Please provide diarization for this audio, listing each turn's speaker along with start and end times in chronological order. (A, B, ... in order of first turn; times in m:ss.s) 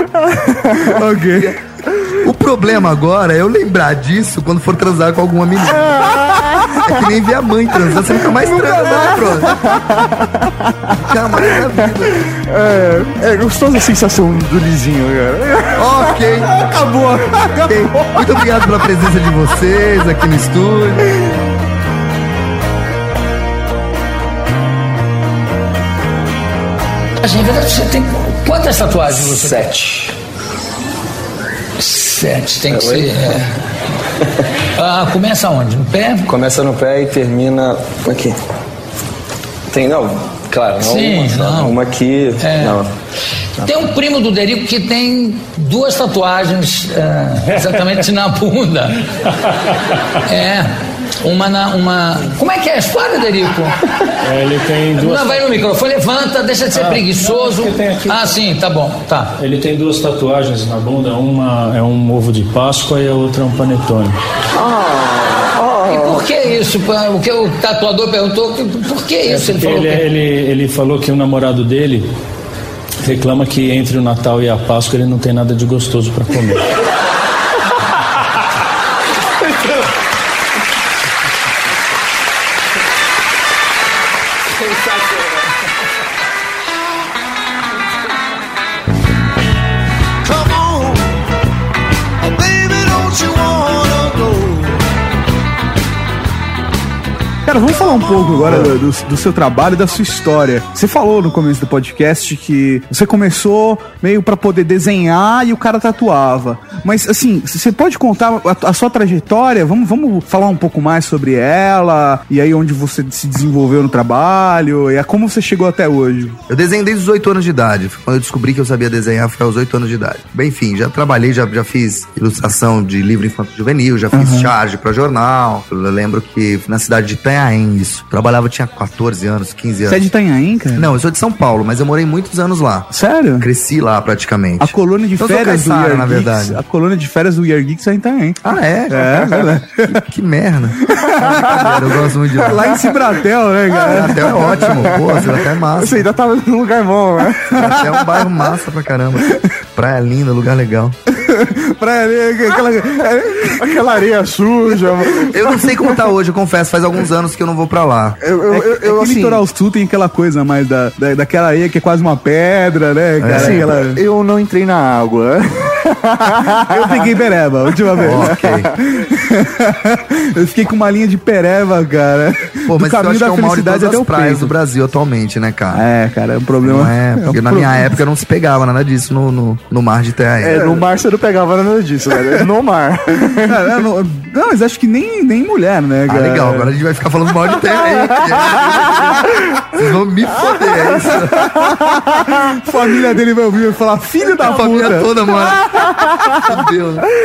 0:00.5-0:01.5 A
0:01.3-0:01.6 B
0:02.2-0:09.6 B
0:08.4-0:09.8 A
0:09.7-0:10.5 C
0:11.0-0:12.2 B
0:11.7-0:16.0 C
0:15.7-0:16.5 B
0:16.5-0:18.2 A
0:17.6-0:21.2 B
0:27.2-0:30.0 D
0:29.2-0:29.8 E
0:31.8-0:33.5 D
0:32.7-0:33.4 E
0:34.7-0:36.3 D
0:36.2-0:38.4 E
0:39.7-0:42.9 E
0:40.8-0:41.8 D
0:42.4-0:42.8 D
0:43.6-0:49.0 D
0:50.3-0:53.8 D
0:54.2-0:55.5 F
0:54.9-0:59.3 D
0:56.7-0:58.4 F
0:59.4-1:04.2 F
1:04.5-1:06.3 E
1:05.8-1:10.1 D
1:09.2-1:12.1 F
1:13.0-1:16.7 F
1:37.4-1:56.4 A
1:56.5-2:10.1 B
2:04.1-2:04.5 A
2:09.9-2:10.9 A
2:10.7-2:16.6 B
2:12.9-2:13.5 A
2:14.6-2:20.0 A
2:18.4-2:19.1 B
2:19.0-2:19.5 C
2:19.8-2:22.7 B
2:20.9-2:21.7 A
2:22.4-2:24.9 A
2:22.7-2:23.1 C
2:23.7-2:27.7 C
2:23.8-2:26.1 B
2:27.5-2:31.0 B
2:31.1-2:33.7 A
2:33.5-2:36.0 C
2:35.3-2:38.2 B
2:38.2-2:39.4 C
2:38.5-2:44.0 A
2:43.2-2:43.7 B
2:43.3-2:46.9 C
2:46.5-2:54.5 A
2:47.9-2:48.3 C
2:48.0-2:48.7 B
2:52.7-2:55.8 B
2:55.7-2:57.9 A
2:56.6-3:00.8 B
3:00.4-3:03.8 C
3:03.4-3:06.7 A
3:06.1-3:11.6 B
3:12.3-3:16.4 A
3:14.4-3:15.9 B
3:16.4-3:17.1 B